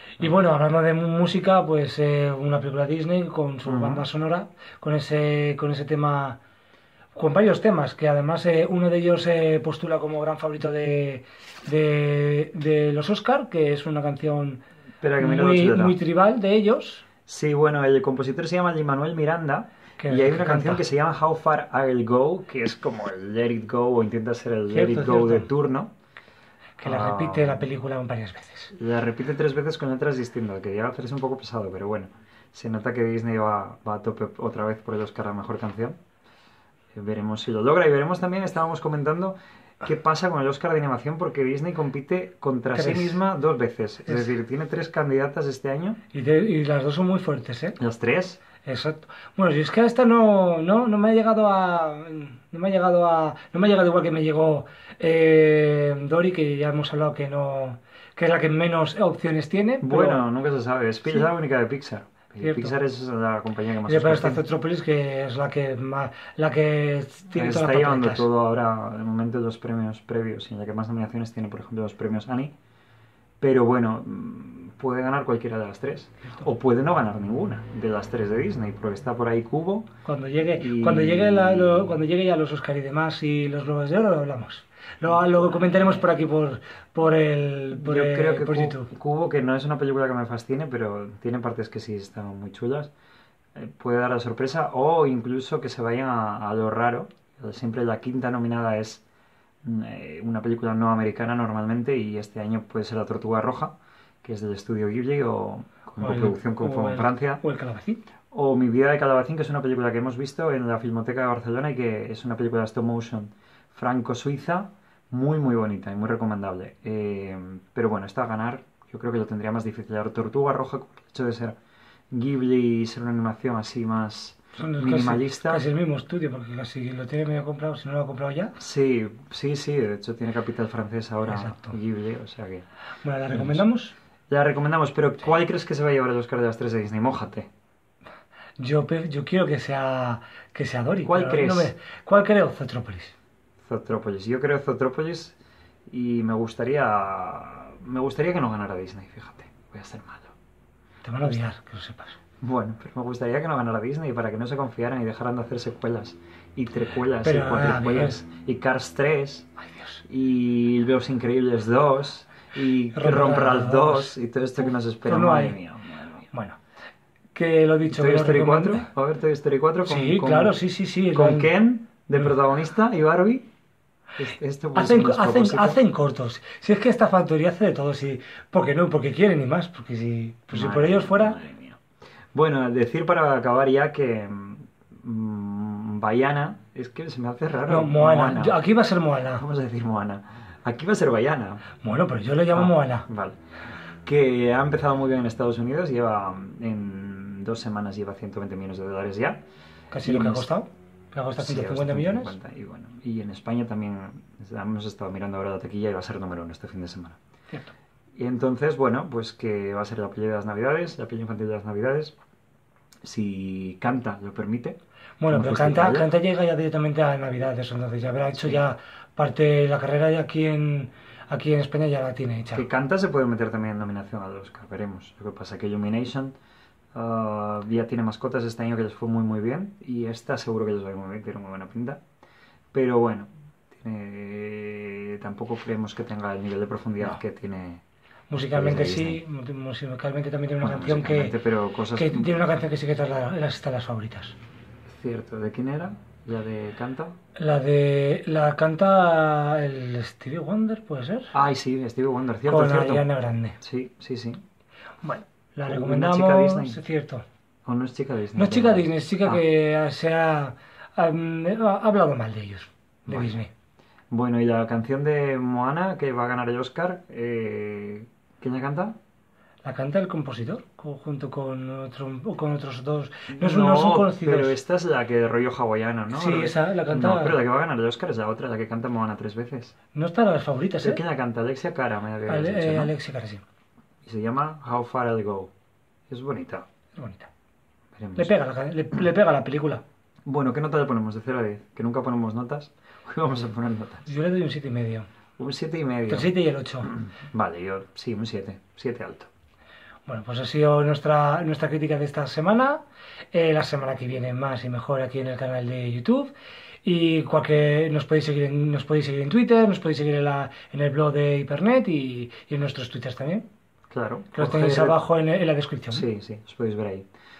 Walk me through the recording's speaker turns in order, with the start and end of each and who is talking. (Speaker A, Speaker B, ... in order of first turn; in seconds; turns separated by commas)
Speaker A: 0.2-6.4, Speaker B: 3.6-4.1, Speaker A: 7.1-14.6, Speaker B: 15.0-16.0, Speaker A: 15.2-17.0, Speaker B: 17.3-25.9, Speaker A: 20.0-20.8, Speaker A: 24.7-25.5, Speaker A: 26.8-28.7, Speaker B: 26.8-27.6, Speaker B: 28.7-36.0, Speaker B: 36.9-46.0, Speaker A: 42.7-43.2, Speaker A: 44.1-44.3, Speaker A: 46.1-47.8, Speaker B: 47.8-48.4, Speaker A: 48.6-60.2, Speaker B: 59.8-64.4, Speaker A: 62.4-62.7, Speaker A: 63.9-68.2, Speaker B: 67.3-72.5, Speaker B: 73.4-79.9, Speaker A: 80.0-88.9, Speaker B: 80.6-82.0, Speaker B: 85.0-86.1, Speaker B: 87.7-92.9, Speaker B: 93.5-99.0, Speaker B: 99.6-107.4, Speaker A: 106.0-108.0, Speaker B: 108.3-121.5, Speaker B: 122.1-125.6, Speaker A: 124.6-128.6, Speaker B: 128.6-132.6, Speaker A: 131.2-131.8, Speaker A: 133.0-133.9, Speaker B: 133.3-133.6, Speaker B: 134.3-137.5, Speaker A: 138.6-143.2, Speaker B: 141.0-141.7, Speaker B: 143.6-145.4, Speaker B: 145.9-150.3, Speaker A: 151.0-152.2, Speaker B: 152.4-159.5, Speaker A: 157.2-158.2, Speaker A: 159.6-160.0, Speaker B: 160.0-166.2, Speaker A: 162.9-164.1, Speaker A: 165.1-165.6, Speaker A: 166.3-166.6, Speaker A: 167.3-168.9, Speaker B: 167.9-170.6, Speaker A: 169.8-171.5, Speaker B: 171.1-173.5, Speaker B: 174.2-175.8, Speaker A: 174.7-181.4, Speaker B: 180.5-181.8, Speaker B: 182.3-188.6, Speaker A: 187.7-189.4, Speaker B: 189.3-191.6, Speaker A: 191.8-193.1, Speaker B: 192.5-193.4, Speaker B: 194.0-199.4, Speaker A: 199.9-202.3, Speaker B: 200.0-200.5, Speaker B: 201.4-207.2, Speaker B: 208.2-212.2, Speaker B: 213.0-214.8, Speaker A: 215.2-222.6, Speaker B: 215.3-216.1, Speaker B: 218.3-218.6, Speaker B: 222.5-226.3, Speaker B: 226.9-232.0, Speaker B: 232.7-237.8, Speaker A: 238.3-241.3, Speaker B: 238.3-239.2, Speaker B: 240.6-242.3, Speaker A: 241.9-244.4, Speaker B: 244.9-247.2, Speaker A: 247.3-251.3, Speaker B: 251.3-253.1, Speaker A: 252.5-253.6, Speaker B: 253.6-254.4, Speaker A: 255.0-257.2, Speaker B: 255.7-256.8, Speaker B: 257.6-259.4, Speaker A: 258.4-263.5, Speaker B: 263.1-263.4, Speaker B: 264.1-268.9, Speaker A: 269.6-274.6, Speaker B: 273.3-279.7, Speaker A: 276.1-277.4, Speaker A: 279.9-281.0, Speaker B: 280.8-282.9, Speaker A: 282.3-283.4, Speaker B: 284.0-285.5, Speaker B: 286.1-286.6, Speaker A: 286.9-287.3, Speaker B: 287.9-288.3, Speaker A: 288.1-289.8, Speaker B: 290.2-294.1, Speaker A: 294.1-295.1, Speaker B: 295.4-299.3, Speaker A: 296.1-296.9, Speaker A: 300.1-302.8, Speaker A: 303.3-306.3, Speaker A: 306.8-313.4, Speaker B: 313.9-315.1, Speaker A: 314.3-316.1, Speaker B: 315.9-317.1